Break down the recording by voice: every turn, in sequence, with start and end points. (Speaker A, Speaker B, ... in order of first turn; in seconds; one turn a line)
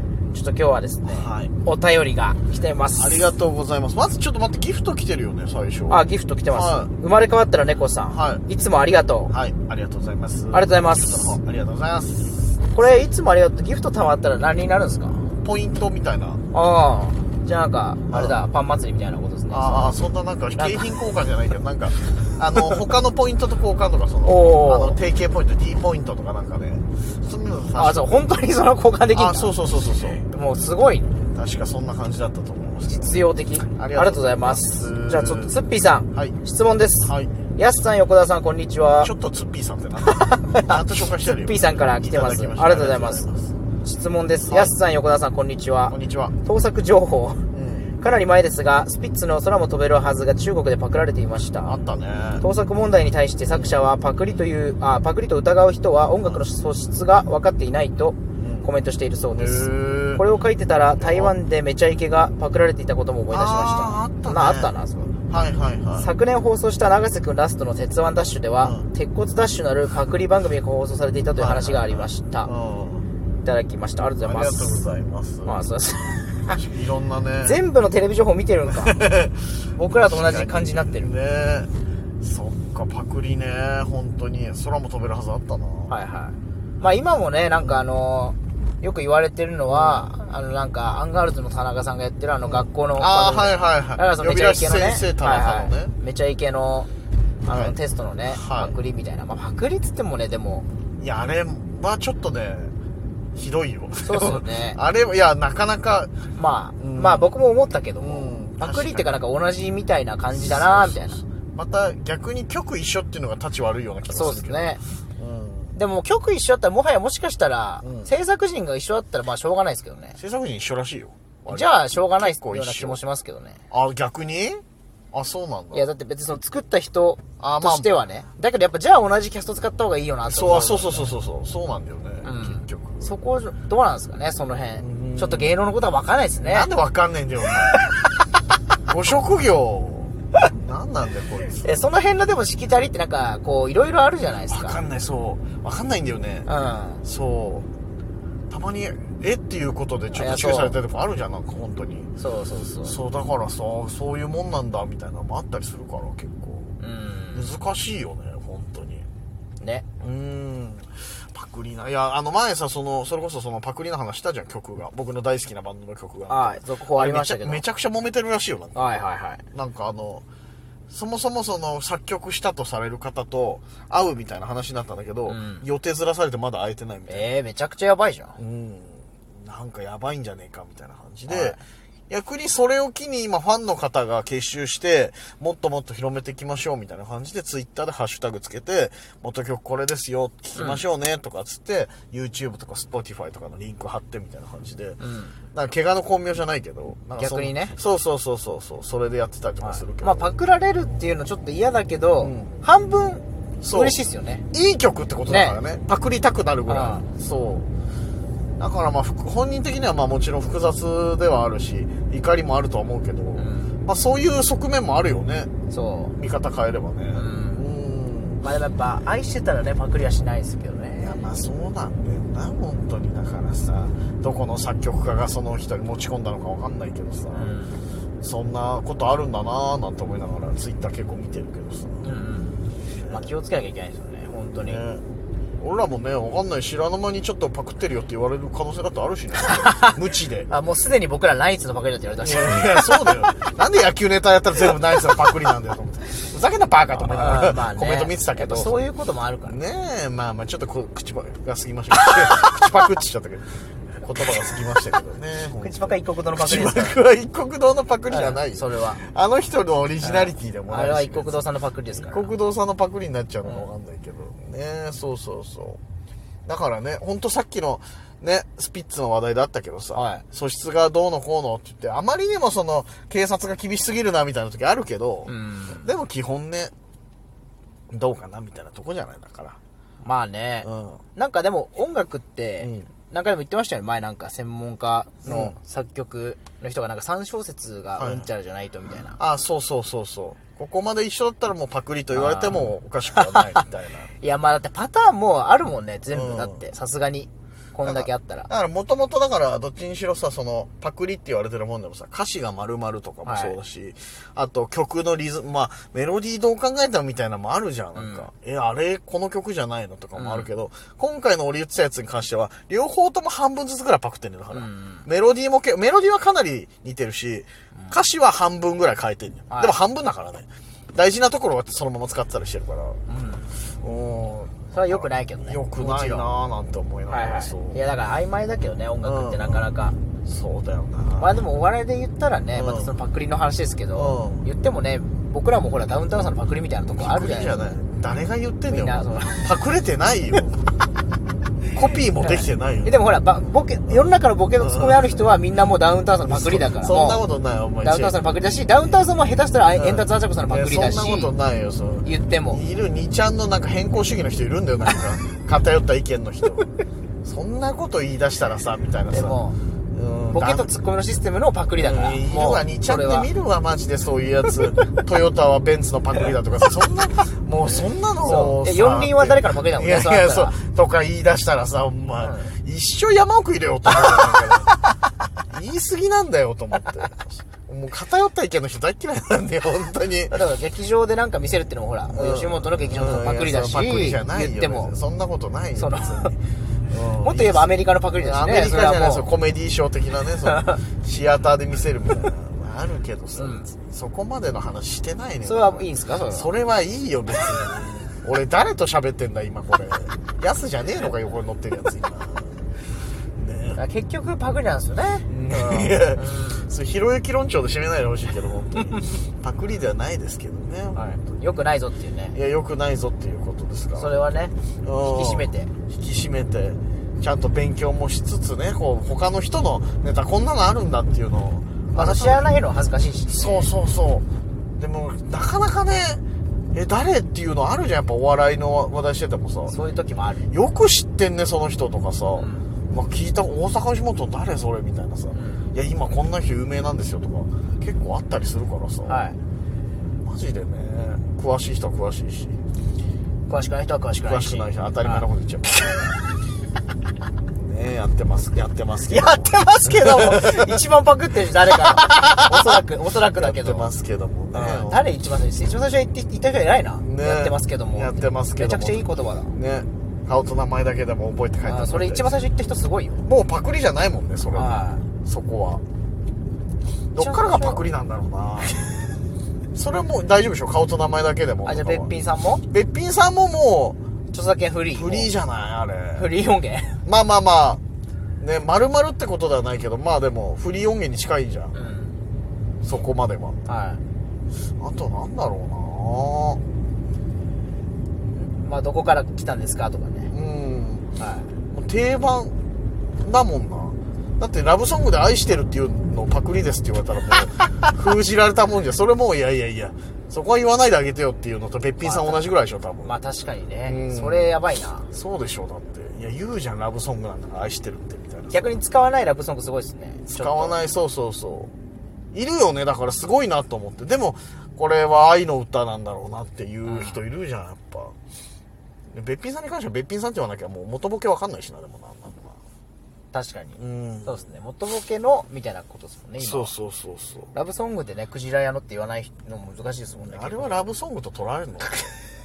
Speaker A: 0.3-3.3
Speaker B: 1.0-1.5
Speaker B: 3.0-6.9
Speaker A: 5.9-9.3
Speaker B: 8.1-8.4
Speaker B: 9.3-13.0
Speaker A: 10.5-11.4
Speaker A: 12.7-15.3
Speaker B: 15.4-16.4
Speaker A: 16.5-20.0
Speaker B: 18.1-18.4
Speaker B: 19.5-28.3
Speaker A: 20.6-20.8
Speaker A: 24.2-25.0
Speaker A: 27.7-29.6
Speaker B: 29.1-30.2
Speaker A: 30.2-31.2
Speaker B: 31.3-35.6
Speaker A: 32.8-39.1
Speaker B: 36.1-36.4
Speaker B: 37.0-37.3
Speaker B: 39.0-43.5
Speaker A: 40.1-43.3
Speaker A: 43.8-51.7
Speaker B: 44.5-44.7
Speaker B: 45.9-46.4
Speaker B: 47.5-48.0
Speaker B: 51.6-52.5
Speaker A: 52.4-65.1
Speaker B: 53.5-53.8
Speaker B: 58.4-58.7
Speaker B: 59.3-60.2
Speaker B: 60.9-61.4
Speaker B: 63.3-66.1
Speaker A: 66.0-72.5
Speaker B: 68.6-68.8
Speaker B: 71.3-73.1
Speaker A: 73.4-74.8
Speaker B: 74.2-75.6
Speaker A: 75.4-76.6
Speaker B: 76.5-77.6
Speaker A: 77.4-79.1
Speaker B: 78.7-85.9
Speaker A: 79.8-81.1
Speaker A: 85.9-96.9
Speaker B: 89.7-90.1
Speaker B: 92.4-95.9
Speaker A: 97.5-100.7
Speaker B: 97.5-97.8
Speaker B: 98.3-98.7
Speaker B: 101.0-102.7
Speaker B: 103.3-106.2
Speaker A: 104.0-104.8
Speaker A: 106.3-111.2
Speaker B: 106.8-107.3
Speaker B: 108.0-109.2
Speaker B: 110.3-115.8
Speaker A: 114.1-114.8
Speaker A: 115.7-120.2
Speaker B: 117.8-118.1
Speaker B: 120.2-123.0
Speaker A: 121.5-123.6
Speaker B: 123.7-125.9
Speaker A: 125.7-131.1
Speaker B: 127.4-127.9
Speaker B: 130.3-133.1
Speaker A: 132.2-136.7
Speaker B: 134.8-135.5
Speaker B: 136.4-137.8
Speaker B: 138.8-141.7
Speaker A: 141.6-144.8
Speaker B: 144.5-146.5
Speaker A: 146.4-147.0
Speaker B: 147.0-147.7
Speaker B: 148.5-152.1
Speaker A: 150.1-150.8
Speaker A: 152.2-152.9
Speaker B: 152.8-156.7
Speaker A: 156.8-157.6
Speaker B: 157.3-159.0
Speaker A: 159.6-159.9
Speaker B: 160.0-169.0
Speaker A: 166.3-167.6
Speaker A: 168.7-169.4
Speaker B: 169.5-170.2
Speaker B: 170.9-177.3
Speaker A: 175.2-175.7
Speaker A: 177.1-178.4
Speaker B: 178.4-181.6
Speaker A: 181.3-181.6
Speaker B: 182.1-195.0
Speaker A: 190.5-190.8
Speaker A: 195.0-195.3
Speaker B: 195.5-200.3
Speaker A: 197.2-197.8
Speaker A: 199.6-204.4
Speaker B: 202.2-202.6
Speaker B: 203.6-204.0
Speaker B: 204.5-207.7
Speaker A: 205.2-205.6
Speaker A: 206.7-207.1
Speaker B: 208.6-215.5
Speaker A: 213.4-213.8
Speaker A: 215.7-216.1
Speaker B: 216.2-218.4
Speaker A: 217.1-217.7
Speaker A: 218.4-221.3
Speaker B: 220.9-227.6
Speaker A: 227.3-227.8
Speaker B: 228.2-232.1
Speaker A: 232.0-234.8
Speaker B: 233.0-233.3
Speaker B: 234.6-235.0
Speaker B: 235.6-240.5
Speaker A: 239.4-239.9
Speaker A: 240.5-243.3
Speaker B: 242.2-248.8
Speaker A: 246.9-249.6
Speaker B: 249.4-253.5
Speaker B: 254.0-265.8
Speaker A: 255.6-257.0
Speaker A: 258.1-259.0
Speaker A: 260.0-262.3
Speaker A: 263.4-263.7
Speaker B: 266.4-276.7
Speaker A: 269.9-270.2
Speaker A: 275.2-275.9
Speaker B: 277.9-279.6
Speaker A: 280.0-289.2
Speaker B: 280.6-281.0
Speaker B: 282.6-282.9
Speaker B: 285.2-285.6
Speaker B: 288.0-288.3
Speaker B: 289.1-294.1
Speaker A: 292.1-293.6
Speaker A: 294.2-298.5
Speaker B: 296.1-296.6
Speaker B: 297.8-323.0
Speaker A: 303.2-303.6
Speaker A: 307.9-308.3
Speaker A: 310.1-310.5
Speaker A: 314.5-315.1
Speaker A: 317.7-318.0
Speaker A: 319.5-319.8
Speaker A: 323.1-323.5
Speaker B: 323.8-327.8
Speaker A: 324.7-326.3
Speaker A: 327.1-330.0
Speaker B: 329.0-329.7
Speaker B: 330.2-331.3
Speaker A: 331.2-337.7
Speaker B: 332.5-332.9
Speaker B: 333.9-334.4
Speaker B: 336.9-340.6
Speaker A: 338.7-339.6
Speaker B: 341.7-343.0
Speaker A: 342.2-347.3
Speaker B: 343.9-345.2
Speaker B: 346.2-348.2
Speaker A: 347.8-351.3
Speaker B: 349.7-356.7
Speaker A: 352.0-352.6
Speaker B: 357.2-359.4
Speaker A: 359.1-359.6
Speaker B: 359.9-360.7
Speaker A: 360.3-363.3
Speaker B: 361.7-374.8
Speaker A: 368.2-370.6
Speaker A: 372.2-372.5
Speaker B: 375.5-380.4
Speaker A: 380.3-384.9
Speaker B: 382.1-402.6
Speaker A: 385.7-386.3
Speaker A: 387.2-389.3
Speaker A: 393.4-393.7
Speaker A: 395.4-396.5
Speaker B: 403.4-403.8
Speaker A: 403.7-406.7
Speaker B: 405.3-411.2
Speaker A: 410.9-412.4
Speaker B: 412.3-414.2
Speaker A: 413.9-415.7
Speaker B: 414.8-422.5
Speaker A: 421.9-423.7
Speaker B: 423.3-424.2
Speaker B: 424.8-426.2
Speaker B: 426.7-429.7
Speaker A: 429.7-430.5
Speaker B: 430.5-439.3
Speaker A: 432.3-432.7
Speaker A: 435.3-435.7
Speaker A: 439.1-439.4
Speaker B: 440.2-442.6
Speaker A: 443.5-445.2
Speaker B: 444.2-446.1
Speaker B: 447.5-450.7
Speaker A: 449.1-453.9
Speaker B: 451.7-455.1
Speaker A: 454.5-459.6
Speaker B: 457.0-462.3
Speaker A: 461.6-463.2
Speaker B: 463.2-465.8
Speaker A: 464.5-465.0
Speaker B: 467.1-468.8
Speaker A: 467.2-467.9
Speaker B: 469.7-472.1
Speaker A: 471.6-472.6
Speaker B: 472.7-474.0
Speaker A: 474.3-475.3
Speaker B: 474.9-476.3
Speaker A: 476.1-477.0
Speaker B: 477.0-477.8
Speaker B: 478.4-481.7
Speaker A: 481.7-482.1
Speaker B: 482.8-483.6
Speaker A: 483.6-484.0
Speaker B: 484.8-486.6
Speaker A: 488.3-490.3
Speaker B: 490.3-491.1
Speaker A: 491.2-491.5
Speaker B: 491.7-492.5
Speaker B: 493.2-503.1
Speaker A: 502.0-505.1
Speaker B: 503.8-504.5
Speaker B: 505.1-508.8
Speaker A: 508.5-510.8
Speaker B: 510.3-511.7
Speaker B: 512.3-518.1
Speaker A: 516.8-517.2
Speaker B: 519.1-522.6
Speaker A: 523.3-526.7
Speaker B: 523.8-524.5
Speaker B: 526.4-527.5
Speaker A: 527.5-530.9
Speaker B: 530.2-532.1